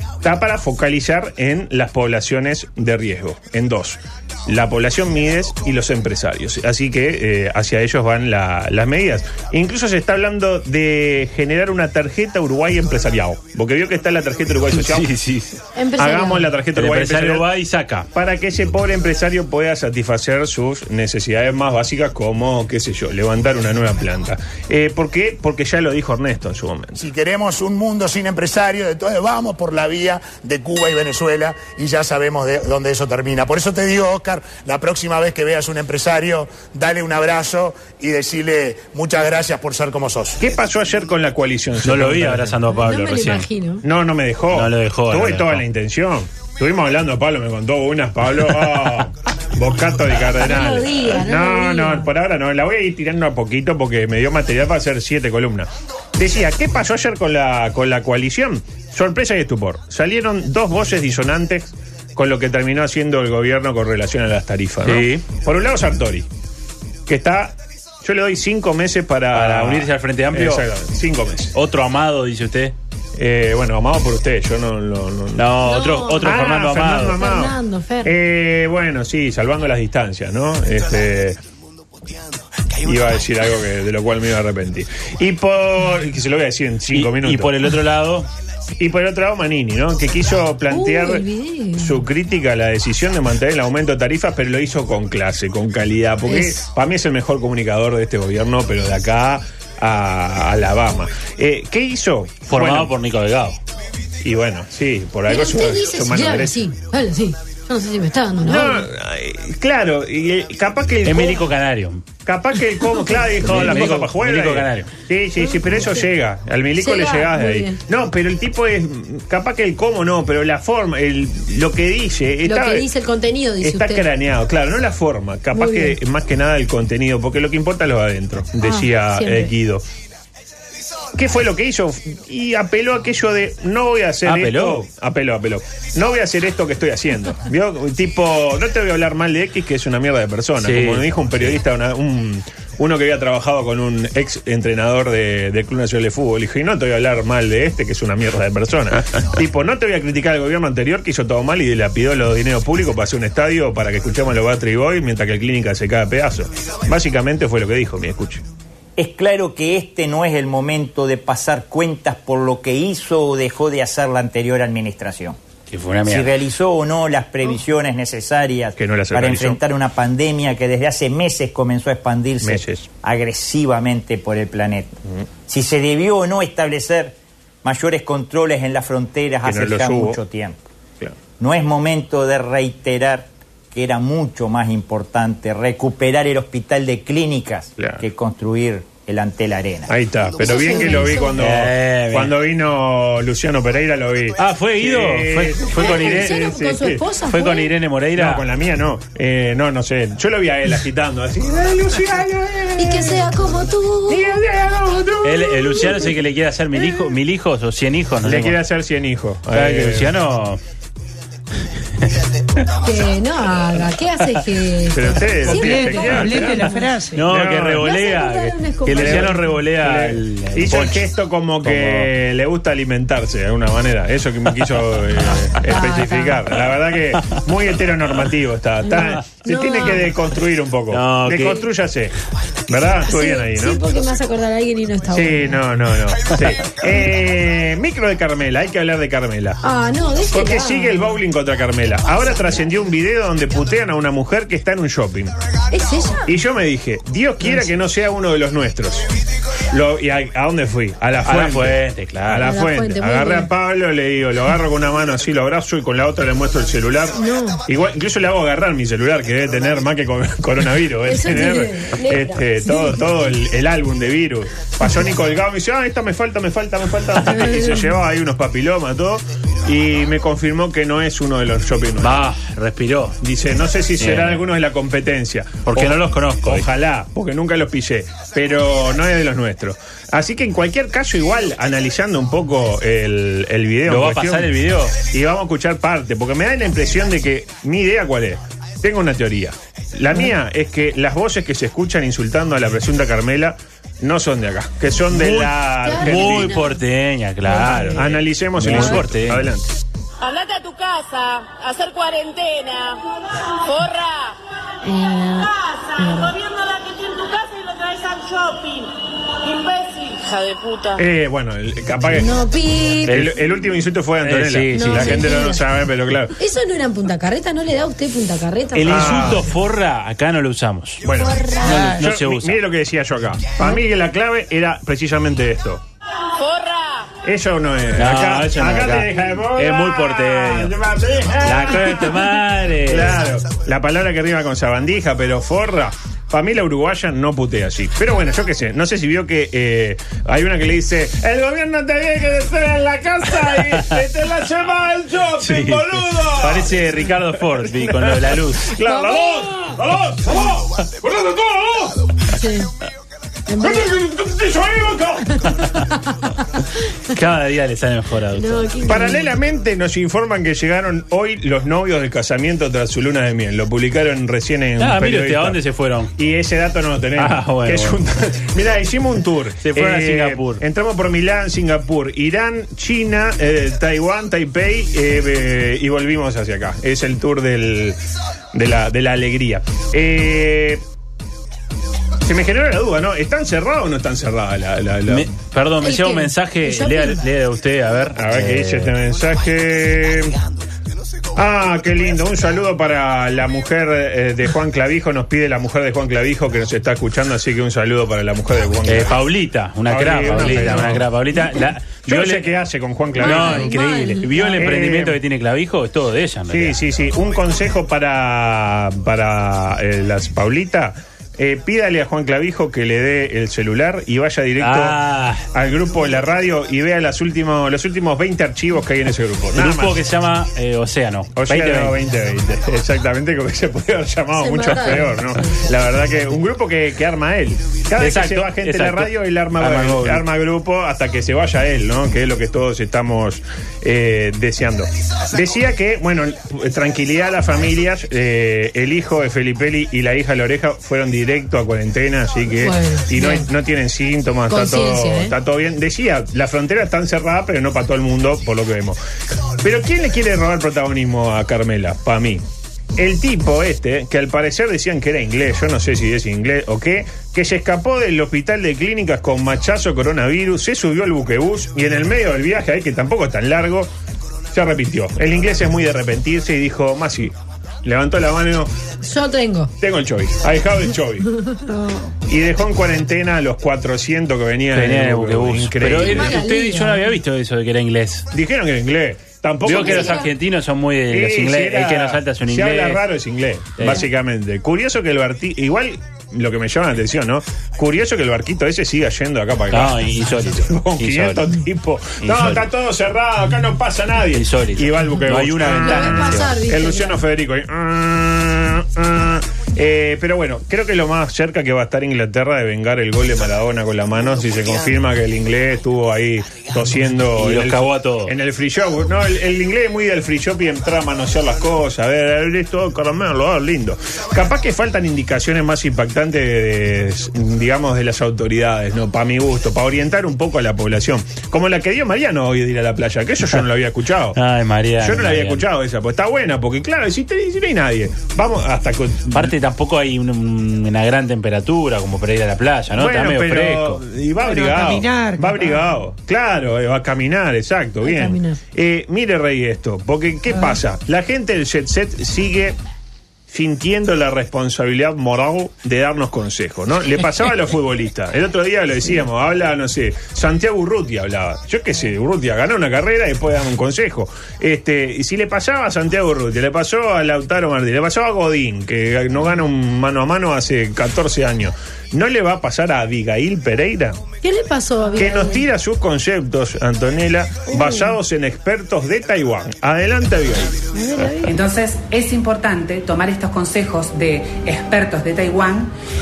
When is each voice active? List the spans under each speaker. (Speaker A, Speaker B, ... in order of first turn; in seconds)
Speaker A: 0.2-15.1, 16.0-17.5, 18.1-27.0, 40.4-42.6, 43.8-66.3, 67.1-71.5, 73.2-75.5, 76.2-81.4, 82.8-87.7, 88.8-91.2, 91.8-102.9, 104.2-106.6, 108.4-111.4, 112.2-122.9, 123.6-129.8, 131.1-158.4, 168.8-169.6, 172.4-172.8, 179.4-180.2, 189.9-197.0, 198.1-203.6, 204.1-206.1, 208.2-210.1, 214.9-216.7, 217.3-217.8, 218.9-232.2, 232.7-233.8, 235.1-239.6, 240.3-245.3, 246.2-249.1, 249.7-272.3, 273.2-296.6, 297.9-299.7, 311.0-312.4, 313.1-316.3, 318.9-319.5, 321.0-325.8, 327.2-332.2, 332.9-352.2, 353.6-355.5, 358.9-365.6, 366.2-378.0, 378.5-380.8, 382.2-385.3, 388.1-390.4, 391.3-399.2, 399.9-401.1, 402.1-403.7, 404.6-405.2, 406.5-414.9, 415.5-420.0, 421.4-449.0, 449.6-452.4, 453.0-463.9, 464.5-468.7, 469.8-471.3, 472.3-476.4, 478.3-480.3, 481.1-524.4, 525.0-529.5, 532.9-542.8, 543.5-564.2, 565.1-570.8
Speaker B: 14.7-15.6, 16.7-18.1, 41.8-43.5, 44.5-45.6, 64.8-65.2, 69.3-70.6, 71.5-72.7, 75.3-77.2, 86.9-88.3, 102.5-103.6, 111.0-112.0, 113.4-114.9, 134.2-134.8, 140.6-141.5, 165.7-166.3, 191.4-192.3, 194.4-196.5, 197.2-198.4, 205.2-208.6, 209.5-210.6, 217.1-221.1, 221.6-222.1, 230.9-231.7, 251.2-252.6, 272.0-273.2, 274.0-274.4, 275.6-276.6, 283.9-285.0, 295.1-299.5, 313.1-313.3, 314.2-315.4, 318.7-321.0, 321.6-322.6, 327.9-330.7, 331.4-333.2, 343.5-343.9, 345.4-348.7, 357.1-358.7, 364.8-366.1, 367.1-368.0, 369.6-370.6, 385.1-388.9, 398.9-402.5, 403.1-406.8, 414.6-415.4, 419.5-421.9, 428.0-430.2, 474.7-478.3, 479.6-483.0, 483.8-484.1, 489.7-491.5, 492.2-492.7, 494.3-496.6, 507.3-508.4, 524.3-525.6, 529.3-534.0
Speaker C: 15.7-16.5, 42.7-43.8, 50.4-52.1, 75.6-76.3, 77.1-78.1, 90.7-92.0, 96.3-96.6, 105.3-108.9, 113.6-113.9, 115.4-116.0, 116.8-117.8, 122.4-124.0, 125.5-126.0, 128.6-129.5, 190.4-191.4, 195.8-197.7, 202.8-204.3, 212.8-216.9, 217.8-219.6, 225.7-226.4, 228.9-230.1, 233.1-235.6, 239.6-241.2, 245.7-246.3, 252.4-253.5, 257.1-257.6, 261.1-263.0, 267.2-267.9, 295.8-296.8, 297.4-298.0, 298.7-299.0, 304.8-306.3, 312.1-313.2, 314.7-315.6, 316.4-319.4, 321.1-322.0, 348.9-349.7, 352.3-352.7, 353.5-353.9, 358.4-359.3, 385.8-387.2, 400.3-400.9, 403.2-404.7, 424.4-425.5, 442.6-443.5, 444.5-445.3, 469.0-469.7, 476.0-477.1, 479.7-480.3, 495.8-497.2, 538.0-538.6, 564.4-565.6, 567.7-568.1, 570.9-571.5
Speaker D: 27.0-40.4
Speaker E: 159.0-165.4, 166.1-180.6, 181.4-189.9
Speaker F: 215.5-217.2, 534.4-535.9
Speaker G: 300.2-303.0, 303.6-304.4, 305.4-311.0, 326.4-327.1
Speaker H: 571.5-575.9